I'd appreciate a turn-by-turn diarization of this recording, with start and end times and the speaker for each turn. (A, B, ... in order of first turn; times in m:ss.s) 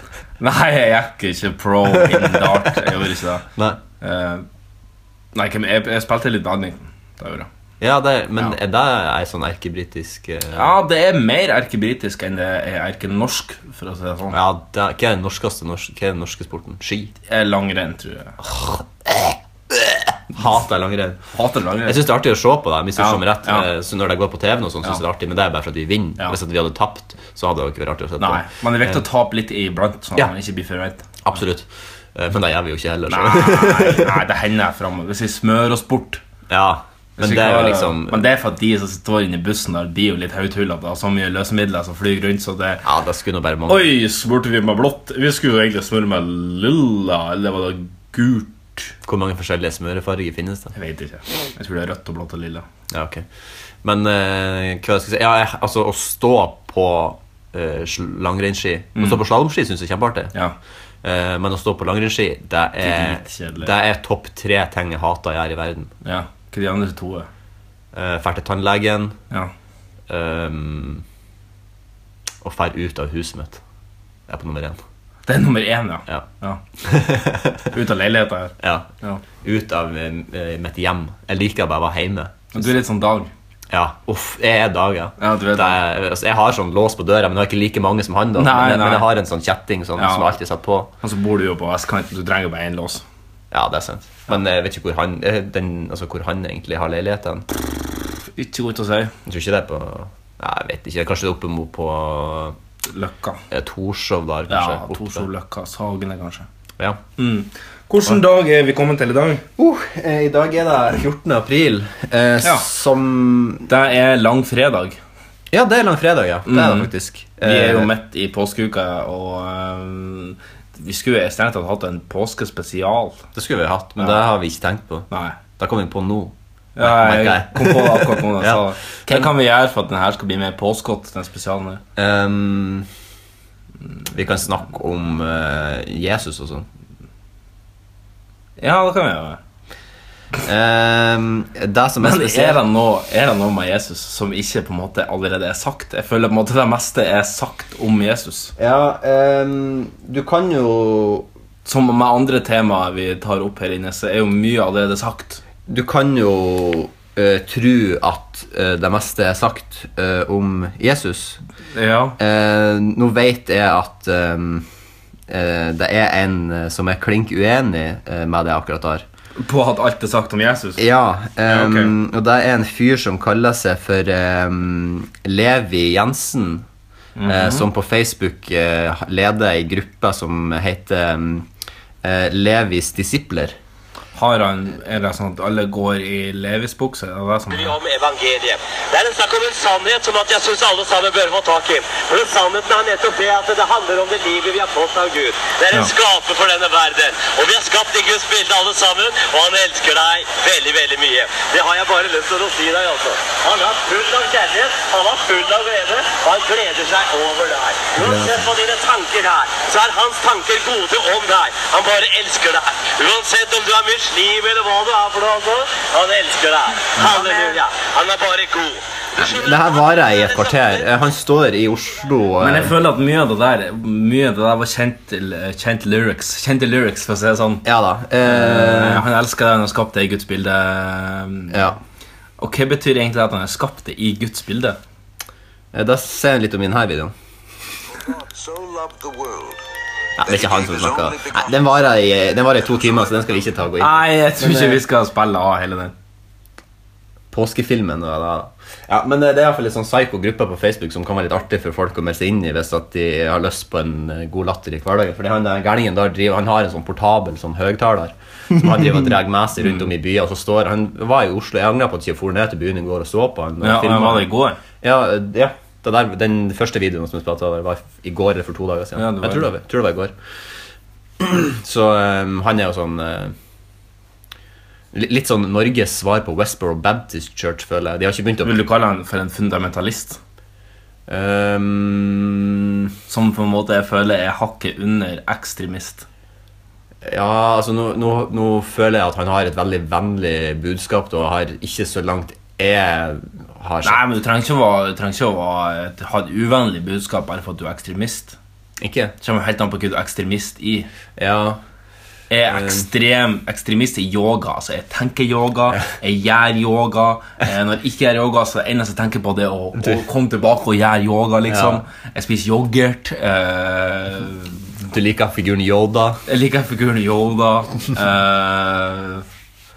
0:00.4-0:03.5 A
0:01.9-0:03.0 B
0:03.6-0:03.8 B
0:04.0-0:04.4 A
0:05.4-0:07.5 A
0:07.8-0:10.8 B
0:10.5-0:14.4 A
0:14.3-0:17.1 B
0:17.3-0:18.4 A
0:18.4-0:21.2 B
0:21.3-0:22.0 A
0:21.9-0:29.0 B
0:23.0-0:23.7 A
0:28.2-0:31.2 A
0:31.2-0:34.2 B
0:33.1-0:36.2 A
0:36.5-0:38.2 B
0:37.2-0:42.8 A
0:42.8-0:43.9 B
0:43.7-0:48.9 A
0:49.0-0:50.7 B
0:50.8-0:52.6 A
0:52.9-0:53.2 B
0:53.8-1:00.4 B
0:59.0-0:59.2 A
1:01.0-1:05.9 B
1:02.8-1:03.7 A
1:06.0-1:07.3 A
1:07.9-1:09.2 B
1:10.1-1:11.0 B
1:12.4-1:13.6 B
1:14.3-1:14.8 B
1:15.3-1:16.6 A
1:16.8-1:17.7 B
1:17.7-1:19.2 A
1:18.6-1:18.9 B
1:19.4-1:22.7 B
1:22.5-1:23.3 A
1:23.7-1:30.9 B
1:25.2-1:25.8 A
1:28.4-1:29.1 A
1:30.0-1:30.3 A
1:31.0-1:33.0 A
1:33.5-1:37.5 B
1:38.4-1:39.1 A
1:39.2-1:42.6 B
1:42.9-1:43.4 A
1:43.5-1:45.3 B
1:44.5-1:46.5 A
1:47.2-1:49.4 A
1:49.6-1:53.7 B
1:52.4-1:52.7 A
1:53.7-1:55.0 A
1:55.5-1:57.9 B
1:56.5-2:03.2 A
2:03.4-2:09.3 B
2:05.1-2:05.4 A
2:06.8-2:11.8 A
2:12.0-2:12.9 B
2:14.1-2:16.7 B
2:18.6-2:19.4 A
2:20.4-2:22.6 B
2:22.0-2:28.5 A
2:28.6-2:31.3 B
2:31.6-2:35.4 A
2:35.7-2:41.4 B
2:41.7-2:42.2 A
2:42.2-2:44.7 B
2:45.3-2:49.0 B
2:49.4-2:50.9 A
2:50.8-2:56.6 B
2:51.5-2:51.9 A
2:57.2-2:57.7 A
2:57.2-3:01.5 B
3:02.0-3:03.6 B
3:04.2-3:07.8 A
3:07.5-3:40.8 C
3:28.0-3:28.5 B
3:37.0-3:37.5 A
3:39.2-3:42.8 B
3:42.4-3:47.6 A
3:47.6-3:49.1 B
3:48.2-3:51.6 A
3:51.5-3:51.8 B
3:52.4-3:54.8 A
3:55.7-3:57.1 B
3:57.9-3:59.6 D
4:00.2-4:04.8 B
4:00.2-4:01.6 D
4:03.8-4:05.9 A
4:07.3-4:24.3 B
4:18.6-4:19.9 A
4:23.6-4:24.6 A
4:24.8-4:30.1 B
4:29.0-4:29.5 A
4:31.2-4:33.4 B
4:34.9-4:38.6 B
4:38.4-4:40.2 A
4:41.1-4:42.9 B
4:43.1-4:46.0 A
4:47.0-4:54.0 B
4:53.8-4:58.4 A
4:58.8-4:59.1 B
4:59.2-5:00.9 A
5:01.2-5:01.6 B
5:02.3-5:14.6 A
5:02.5-5:02.9 B
5:11.5-5:11.8 B
5:14.9-5:16.2 B
5:16.3-5:19.2 A